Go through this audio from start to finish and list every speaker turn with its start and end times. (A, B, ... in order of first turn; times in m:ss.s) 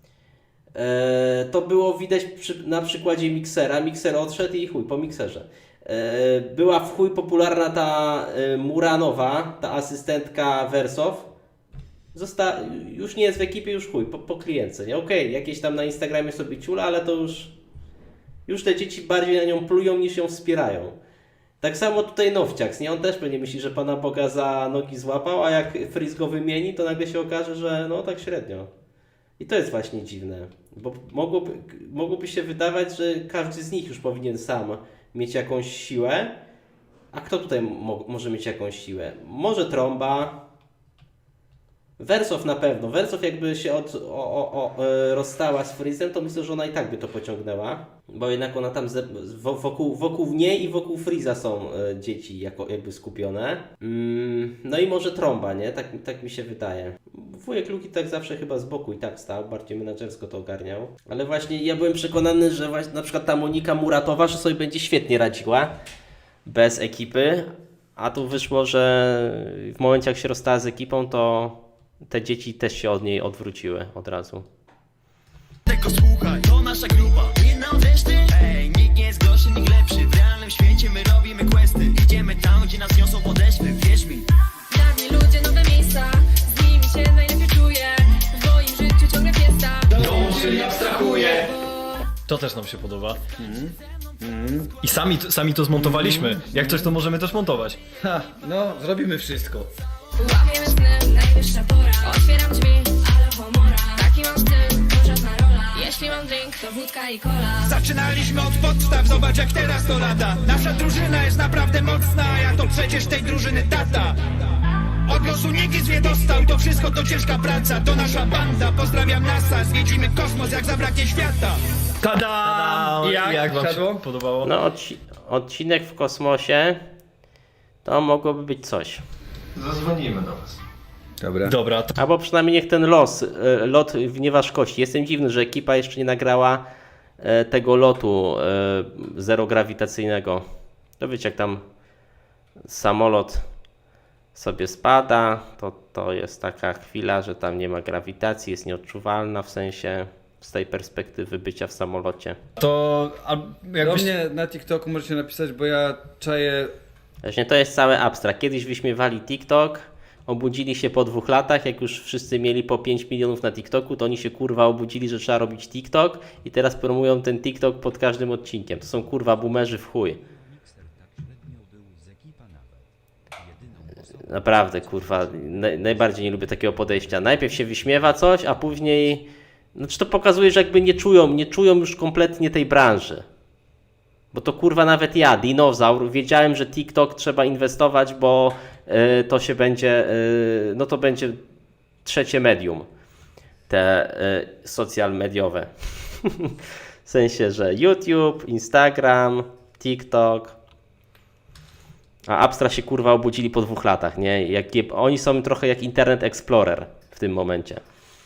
0:00.7-0:11.3 A
0:12.1-0:17.5 A
0:18.5-0:21.0 A
0:21.6-0:28.7 A
0:29.4-0:36.4 A
0:37.1-0:40.4 A
0:42.0-1:05.7 A
1:06.4-1:14.4 A
1:15.7-1:24.2 B
1:24.7-1:32.0 C
1:29.9-1:31.5 D
1:30.0-1:30.7 E
1:32.2-1:33.2 D
1:33.4-1:34.7 E
1:34.8-1:37.8 D
1:35.8-1:36.9 E
1:38.0-1:39.7 E
1:40.2-1:47.8 C
1:47.6-1:54.2 F
1:55.1-2:01.6 F
2:02.0-2:04.5 D
2:02.4-2:04.0 E
2:04.4-2:06.8 A
2:07.8-2:09.0 A
2:09.5-2:10.6 B
2:11.2-2:11.5 E
2:11.4-2:11.9 D
2:12.0-2:16.6 A
2:17.2-2:20.4 A
2:21.0-2:21.6 A
2:22.7-2:23.4 A
2:24.3-2:32.4 A
2:32.6-2:34.1 D
2:33.8-2:36.7 E
2:37.2-2:50.2 A
2:50.3-2:52.8 B
2:53.5-2:54.2 B
2:54.2-3:03.2 A
3:04.3-3:11.4 A
3:12.0-3:12.9 A
3:13.7-3:20.6 A
3:22.3-3:27.8 A